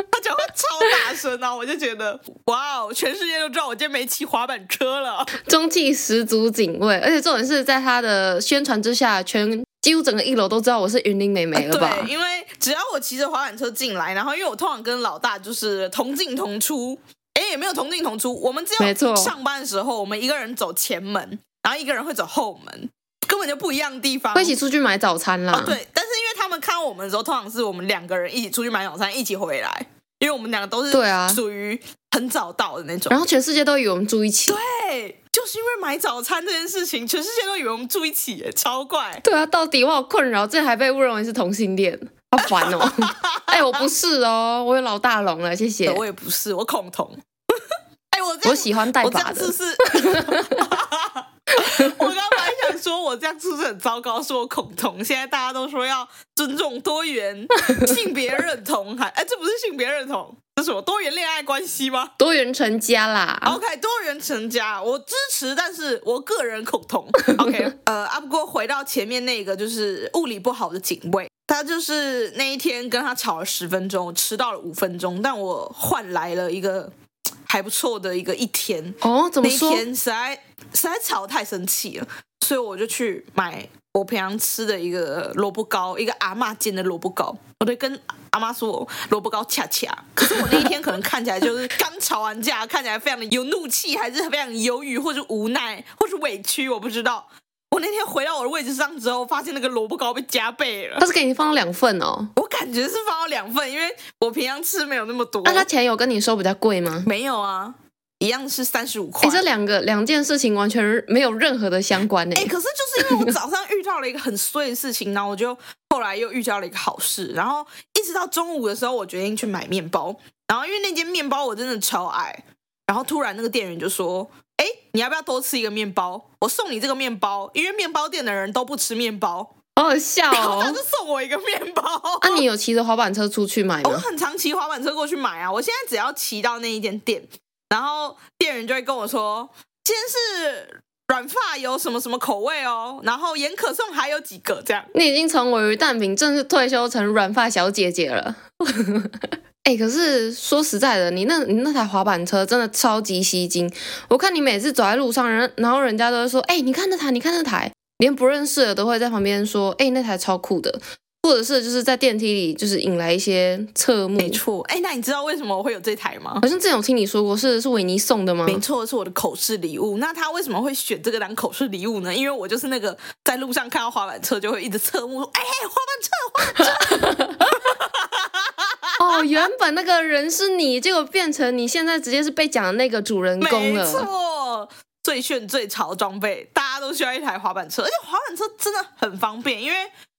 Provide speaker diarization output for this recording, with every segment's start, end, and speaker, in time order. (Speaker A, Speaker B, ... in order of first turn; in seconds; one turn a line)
Speaker A: 0.1-5.3
Speaker B: 5.4-12.1
Speaker A: 11.6-24.6
Speaker B: 18.8-19.4
Speaker B: 24.3-25.8
Speaker A: 25.5-33.2
Speaker B: 30.9-31.4
Speaker B: 33.1-34.6
Speaker A: 34.5-39.2
Speaker B: 39.2-46.0
Speaker A: 42.4-43.9
Speaker A: 45.9-62.1
Speaker B: 48.5-50.7
Speaker B: 51.6-52.0
Speaker B: 57.7-58.0
Speaker B: 62.2-63.6
Speaker A: 63.4-76.9
Speaker B: 67.2-67.6
Speaker A: 77.5-101.1
Speaker B: 79.0-79.8
Speaker B: 101.0-102.3
Speaker A: 102.4-105.7
Speaker B: 105.5-107.1
Speaker A: 107.0-109.5
Speaker B: 109.2-113.3
Speaker A: 112.3-129.5
Speaker B: 129.8-130.8
Speaker A: 130.3-132.4
Speaker B: 132.2-134.1
Speaker A: 133.8-144.9
Speaker B: 144.9-164.4
Speaker A: 164.2-166.4
Speaker B: 166.4-168.6
Speaker A: 168.5-179.3
Speaker B: 176.6-177.4
Speaker B: 179.0-184.1
Speaker A: 183.4-189.9